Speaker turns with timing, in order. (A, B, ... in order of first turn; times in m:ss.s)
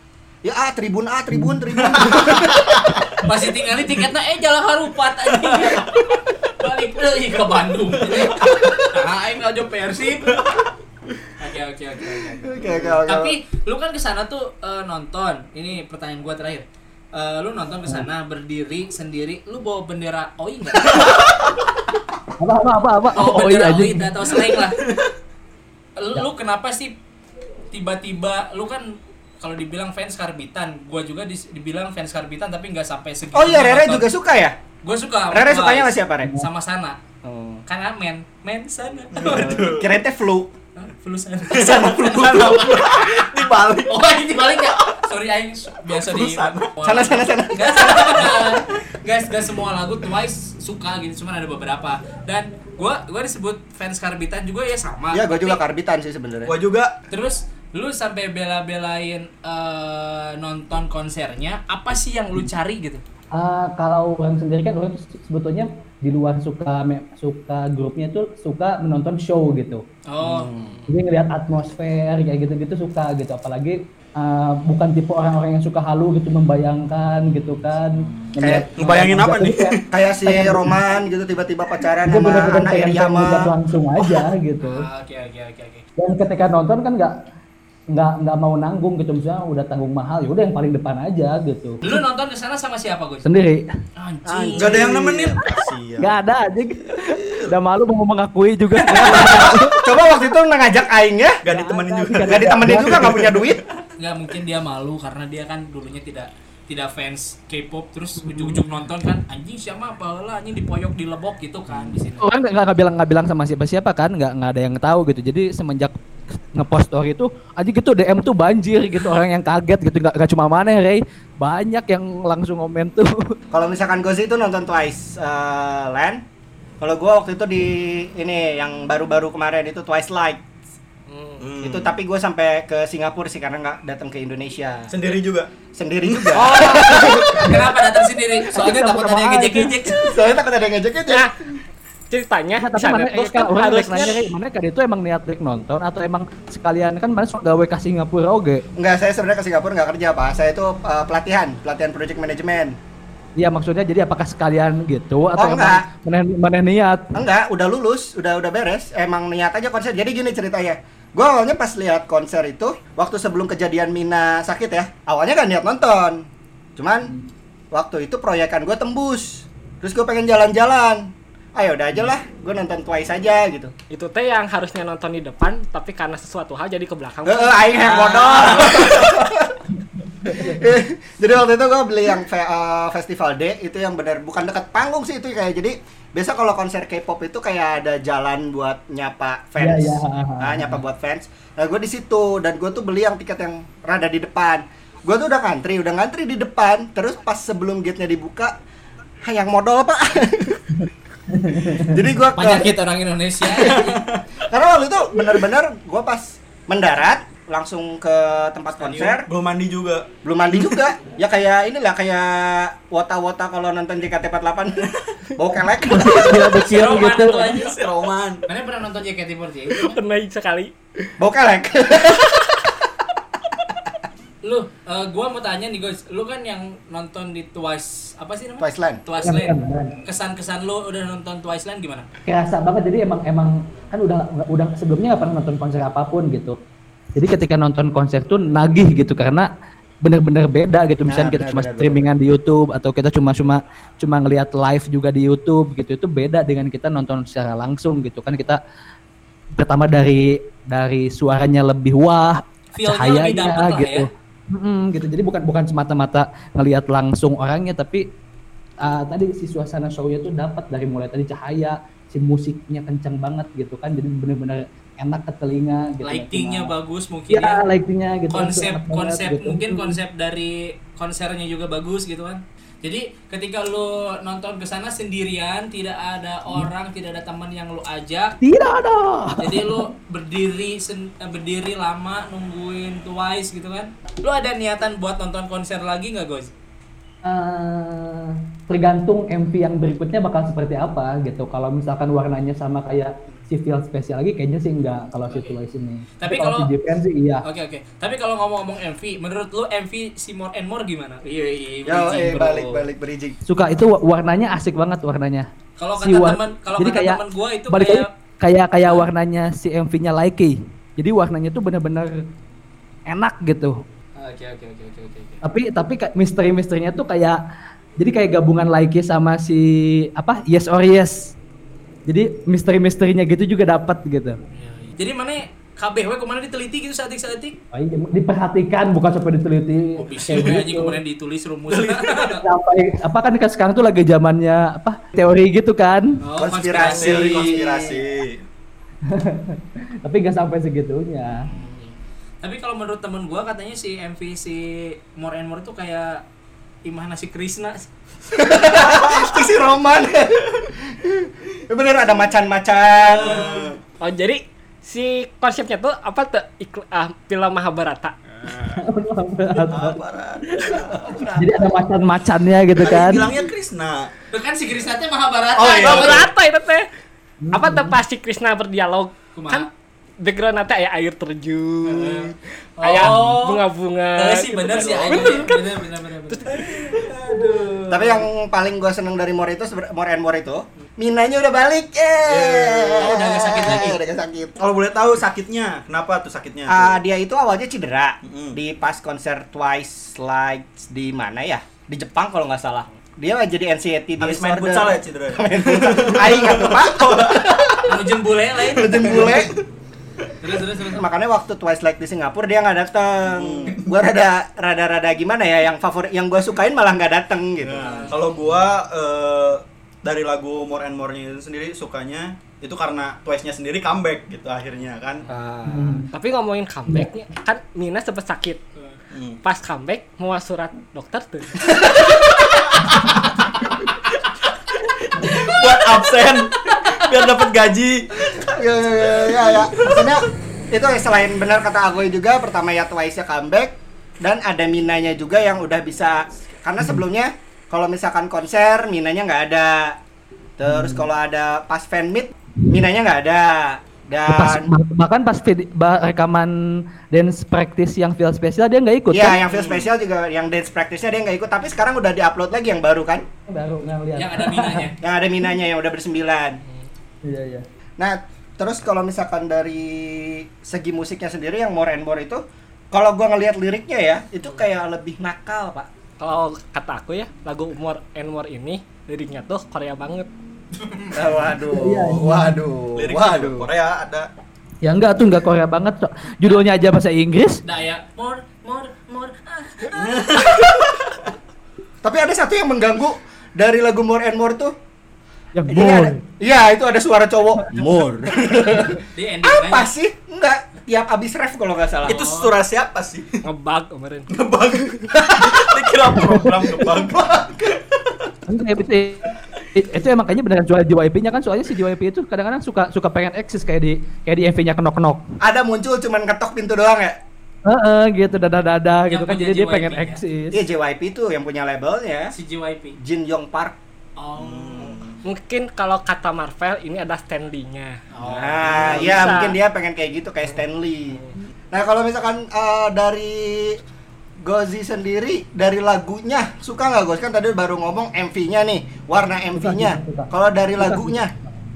0:00.4-0:02.8 A
0:01.9-0:03.0 B
0:03.2-0:10.4 C
0:05.4-0:06.0 B
0:08.0-0:08.8 B
0:10.3-0:10.6 B
0:11.4-0:21.1 C
0:12.5-0:13.4 A
0:12.5-0:13.0 B
0:22.4-0:24.1 D
0:23.1-0:24.8 C
0:26.0-0:26.9 C
0:27.7-0:34.1 C
0:33.3-0:34.6 A
0:34.8-0:37.0 C
0:35.3-0:36.4 A
0:37.2-0:37.6 A
0:37.6-0:39.6 C
0:39.1-0:39.9 B
0:39.2-0:40.5 A
0:40.8-0:43.3 C
0:41.5-0:45.0 B
0:43.8-0:55.6 C
0:45.9-0:46.7 B
0:46.8-0:48.3 A
0:55.1-0:56.5 A
0:56.4-0:56.9 B
0:57.1-1:03.0 C
1:03.3-1:09.8 D
1:10.1-1:10.5 C
1:10.2-1:10.8 A
1:10.9-1:20.7 D
1:18.4-1:18.7 A
1:18.8-1:19.8 B
1:19.9-1:23.5 A
1:22.0-1:24.9 D
1:24.6-1:25.8 C
1:26.0-1:27.2 D
1:27.9-1:31.9 D
1:31.8-1:33.2 C
1:33.2-1:33.7 D
1:34.0-1:34.9 C
1:34.2-1:35.4 A
1:34.5-1:36.2 B
1:35.4-1:39.9 D
1:37.0-1:37.5 B
1:39.1-1:41.4 A
1:41.4-1:43.6 B
1:41.4-1:43.1 D
1:42.2-1:43.6 A
1:44.0-1:52.2 C
1:48.2-1:48.6 D
1:52.2-1:56.0 D
1:56.5-2:03.4 D
2:03.5-2:06.2 A
2:06.8-2:10.4 A
2:11.1-2:11.4 E
2:11.4-2:12.0 B
2:11.6-2:14.9 A
2:14.9-2:15.5 B
2:15.7-2:17.6 A
2:16.1-2:16.5 B
2:16.3-2:17.4 E
2:17.2-2:17.6 D
2:17.3-2:20.1 C
2:18.4-2:19.8 D
2:19.9-2:21.3 A
2:21.1-2:21.3 E
2:22.1-2:24.3 E
2:22.6-2:28.6 D
2:28.8-2:32.8 A
2:33.4-2:37.1 D
2:35.3-2:35.9 A
2:37.1-2:47.1 A
2:47.7-2:53.7 A
2:53.9-2:58.1 E
2:57.2-2:59.6 A
2:57.8-2:58.7 C
3:00.2-3:00.7 D
3:00.3-3:18.5 A
3:09.6-3:10.8 D
3:19.2-3:20.6 A
3:21.3-3:21.9 D
3:21.6-3:22.7 A
3:22.4-3:24.0 C
3:23.5-3:23.9 A
3:24.5-3:29.3 A
3:28.8-3:29.1 C
3:28.9-3:30.8 B
3:30.2-3:34.8 A
3:35.4-3:36.6 A
3:35.8-3:37.6 D
3:36.6-3:37.8 C
3:37.5-3:38.4 B
3:38.4-3:40.0 C
3:39.8-3:40.7 E
3:41.2-3:42.5 A
3:44.4-3:52.1 C
3:48.6-3:49.0 A
3:49.2-3:50.0 D
3:52.2-3:56.6 D
3:57.1-3:59.5 D
4:00.0-4:08.6 D
4:01.0-4:02.1 A
4:09.6-4:18.1 D
4:12.7-4:14.1 C
4:18.8-4:26.7 D
4:26.0-4:27.6 C
4:27.3-4:30.0 D
4:28.3-4:38.4 C
4:38.4-4:39.9 D
4:39.4-4:46.5 C
4:47.2-4:57.4 D
4:55.3-4:55.6 C
4:56.2-4:56.7 C
4:57.4-5:02.8 C
5:01.8-5:03.4 A
5:03.4-5:12.2 D
5:05.8-5:08.1 C
5:08.8-5:09.1 C
5:13.1-5:13.8 D
5:14.2-5:15.4 C
5:15.4-5:17.4 D
5:18.0-5:21.3 D
5:22.1-5:24.4 D
5:24.5-5:27.6 C
5:27.7-5:31.0 D
5:30.0-5:32.4 C
5:31.7-5:32.0 B
5:32.4-5:36.2 D
5:36.2-5:37.6 C
5:36.4-5:38.0 A
5:36.7-5:38.4 B
5:39.1-5:41.5 D
5:41.5-5:46.2 C
5:46.8-5:47.9 C
5:48.3-5:53.6 A
5:48.9-5:49.3 B
5:53.0-5:53.8 B
5:54.0-5:58.2 E
5:58.5-5:58.7 B
5:58.7-6:00.8 D
5:59.6-6:01.1 B
6:01.3-6:03.3 D
6:02.8-6:04.1 B
6:04.3-6:06.3 C
6:05.6-6:06.3 B
6:05.7-6:06.9 E
6:07.4-6:08.0 D
6:07.5-6:09.7 E
6:09.3-6:09.7 C
6:10.2-6:15.6 E
6:11.9-6:13.6 C
6:14.1-6:18.2 C
6:16.3-6:17.0 E
6:17.9-6:24.6 A
6:22.2-6:23.2 B
6:23.0-6:24.0 C
6:24.6-6:27.0 B
6:26.7-6:37.8 A
6:28.2-6:28.6 B
6:34.2-6:37.9 B
6:37.8-6:39.4 C
6:38.7-6:39.5 A
6:38.8-6:39.6 B
6:40.4-6:41.0 C
6:40.9-6:47.9 A
6:43.3-6:43.9 B
6:47.6-6:55.2 B
6:47.8-6:48.2 C
6:55.3-6:56.0 A
6:55.7-6:56.1 D
6:56.1-6:58.6 E
6:59.1-6:59.4 B
6:59.4-7:01.7 E
7:02.0-7:03.4 B
7:05.0-7:08.5 B
7:08.3-7:20.0 A
7:09.1-7:10.1 B
7:20.6-7:24.7 A
7:20.6-7:21.1 D
7:24.3-7:29.4 D
7:29.1-7:33.2 A
7:29.5-7:29.8 B
7:33.5-7:34.9 D
7:34.2-7:35.0 C
7:35.0-7:36.6 A
7:37.2-7:37.6 D
7:38.0-7:45.9 A
7:46.2-7:50.3 E
7:50.8-7:51.2 C
7:51.1-7:53.7 A
7:51.7-7:52.6 D
7:52.9-7:54.3 B
7:54.8-7:57.6 D
7:57.6-8:00.2 C
7:59.9-8:00.9 B
8:02.0-8:04.7 A
8:05.5-8:06.2 D
8:05.7-8:12.2 A
8:09.0-8:09.9 C
8:12.0-8:13.4 B
8:12.1-8:12.5 C
8:13.4-8:14.3 E
8:14.3-8:18.3 B
8:16.2-8:16.5 D
8:18.5-8:25.2 D
8:25.4-8:27.2 A
8:27.6-8:30.6 D
8:29.1-8:30.2 C
8:30.5-8:32.3 A
8:32.3-8:33.0 C
8:33.0-8:33.8 A
8:34.2-8:35.1 C
8:34.3-8:35.2 B
8:35.2-8:38.0 E
8:38.1-8:39.3 C
8:38.2-8:43.8 A
8:38.9-8:39.6 E
8:44.4-8:51.3 A
8:49.5-8:51.5 D